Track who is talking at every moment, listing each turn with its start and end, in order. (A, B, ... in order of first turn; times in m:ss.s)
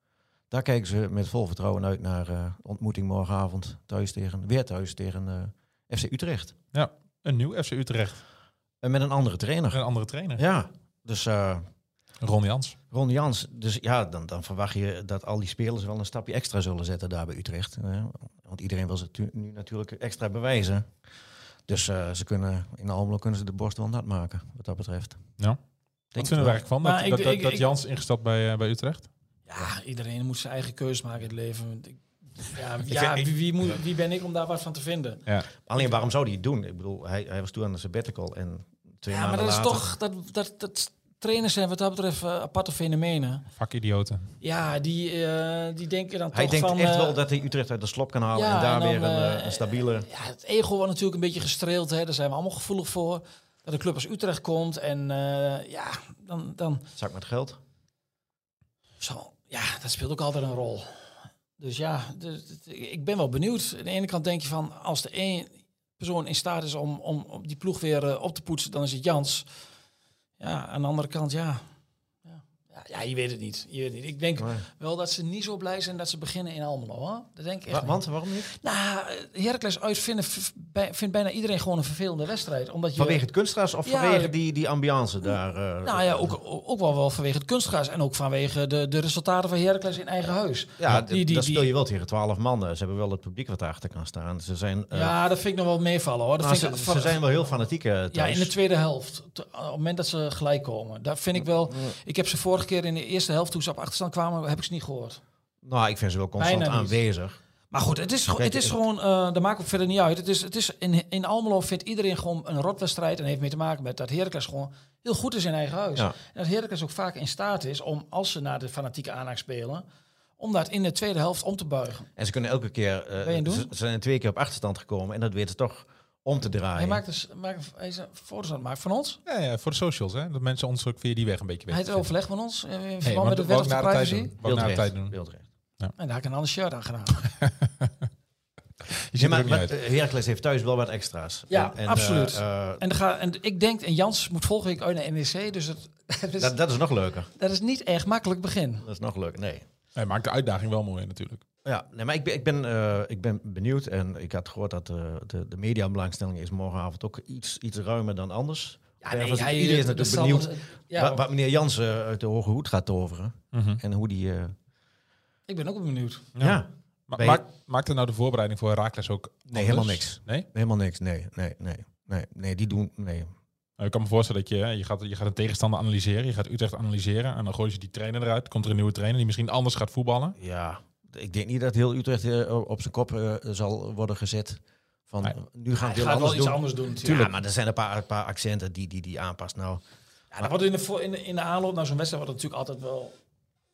0:00.5-0:06.5 A
0:06.7-0:08.2 B
0:08.8-0:09.8 A
0:09.7-0:10.4 B
0:10.4-0:11.6 A
0:12.2-0:12.8 B
0:12.9-0:20.9 A
0:21.7-0:25.2 A
0:26.1-0:26.6 A
0:26.2-0:29.1 B
0:26.8-0:27.6 C
0:29.5-0:35.2 C
0:32.9-0:33.2 A
0:35.6-0:39.9 A
0:39.1-0:43.4 C
0:43.6-0:44.3 B
0:44.4-0:47.2 C
0:46.3-0:50.1 A
0:48.3-0:56.8 C
0:57.0-0:57.6 A
0:59.0-1:00.9 C
1:01.6-1:09.5 C
1:10.4-1:11.6 C
1:12.2-1:23.2 C
1:14.4-1:14.6 A
1:17.7-1:18.5 A
1:23.0-1:26.3 A
1:23.8-1:24.3 C
1:25.8-1:31.7 C
1:30.8-1:35.2 A
1:34.9-1:37.2 C
1:36.4-1:38.5 A
1:38.1-1:45.2 C
1:45.6-1:47.4 A
1:46.4-1:47.0 C
1:47.7-1:59.8 C
1:48.3-1:48.7 A
2:00.4-2:02.1 C
2:02.2-2:07.0 A
2:03.2-2:03.7 C
2:06.8-2:09.2 C
2:09.2-2:12.0 B
2:11.7-2:14.4 C
2:13.0-2:15.2 B
2:14.4-2:15.4 A
2:16.0-2:17.2 C
2:17.4-2:17.9 B
2:19.1-2:19.7 B
2:19.1-2:22.8 A
2:21.5-2:26.6 C
2:26.4-2:27.3 A
2:27.4-2:28.8 C
2:28.8-2:29.6 A
2:29.9-2:31.4 B
2:31.6-2:44.5 A
2:39.0-2:41.2 C
2:43.5-2:43.8 B
2:45.5-2:46.3 C
2:46.4-2:50.5 B
2:46.4-2:47.4 A
2:49.5-2:53.3 A
2:53.8-3:00.4 B
3:00.4-3:09.8 A
3:05.8-3:07.3 C
3:10.3-3:13.1 C